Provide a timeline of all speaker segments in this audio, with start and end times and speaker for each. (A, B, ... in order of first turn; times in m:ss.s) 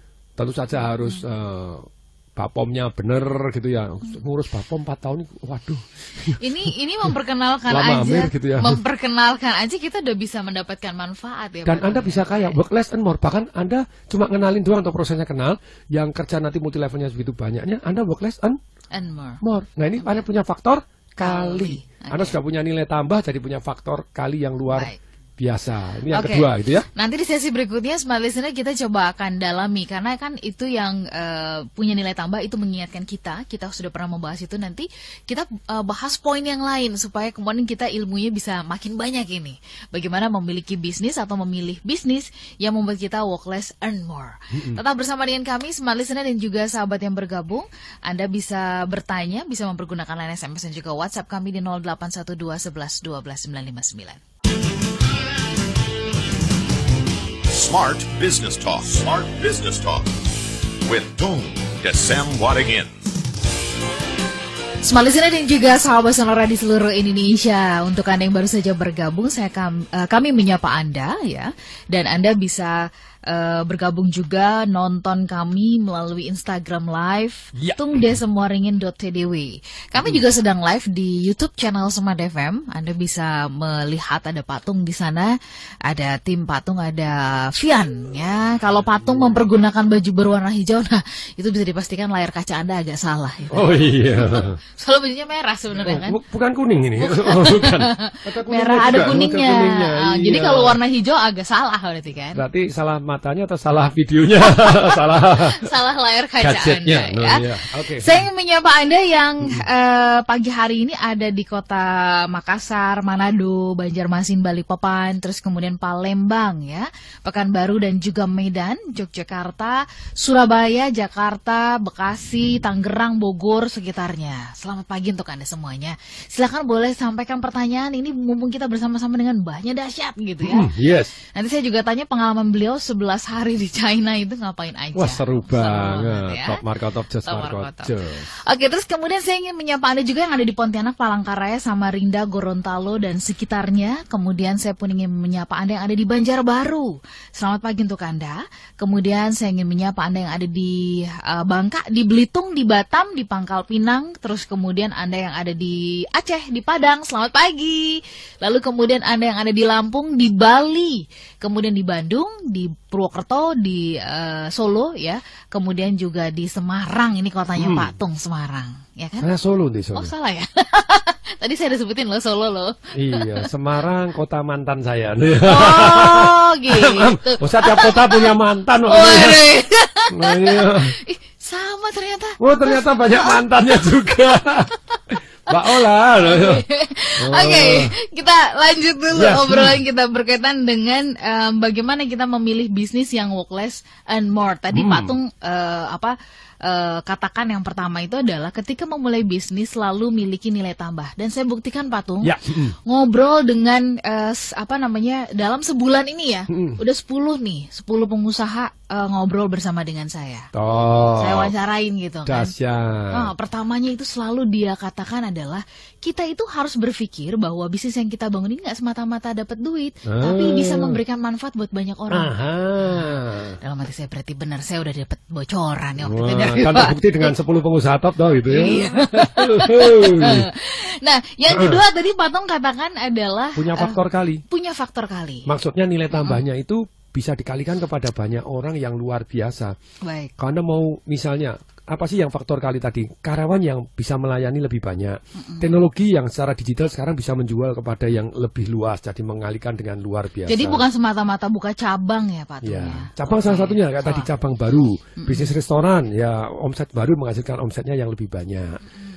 0:00.4-0:06.4 A
0:00.8-0:01.2 B
0:06.4-0:12.6 B
0:07.7-0:08.8 A
0:11.6-0:18.6 A
0:18.9-0:19.4 B
0:19.4-0:26.9 A
0:21.2-0:22.4 B
0:24.7-0:25.0 B
0:26.1-0:54.2 B
0:44.5-0:44.8 A
0:57.5-1:00.1 C
1:00.8-1:03.0 C
1:04.8-1:25.3 B
1:17.5-1:18.1 A
1:25.8-1:36.2 B
1:33.5-1:34.6 A
1:35.8-1:40.8 A
1:37.0-1:42.4 B
1:42.3-1:45.6 A
1:44.6-1:47.4 B
1:46.4-1:48.2 A
1:48.0-2:10.7 B
2:10.4-2:11.1 A
2:11.3-2:16.6 B
2:14.9-2:18.3 A
2:17.2-2:49.3 B
2:47.6-2:47.9 A
2:49.2-2:50.1 A
2:49.9-2:53.5 B
2:52.9-2:59.4 A
2:55.4-2:58.3 B
2:58.8-3:03.4 B
3:00.1-3:00.9 A
3:02.4-3:06.7 A
3:05.5-3:22.3 B
3:07.2-3:07.9 A
3:09.1-3:09.8 A
3:14.7-3:15.2 A
3:22.2-3:22.7 A
3:22.8-3:30.5 B
3:26.5-3:26.8 A
3:30.5-3:31.5 A
3:31.2-3:32.5 B
3:32.2-3:33.3 A
3:33.1-3:47.3 B
3:40.0-3:41.0 A
3:42.1-3:43.6 A
3:46.0-3:50.5 A
3:48.5-3:55.5 B
3:51.5-3:51.8 A
3:53.6-3:54.4 A
3:55.5-3:59.7 A
3:56.1-3:56.4 B
4:00.0-4:00.3 B
4:00.4-4:10.8 A
4:05.4-4:05.7 B
4:10.5-4:14.3 B
4:12.6-4:18.8 A
4:15.2-4:15.5 B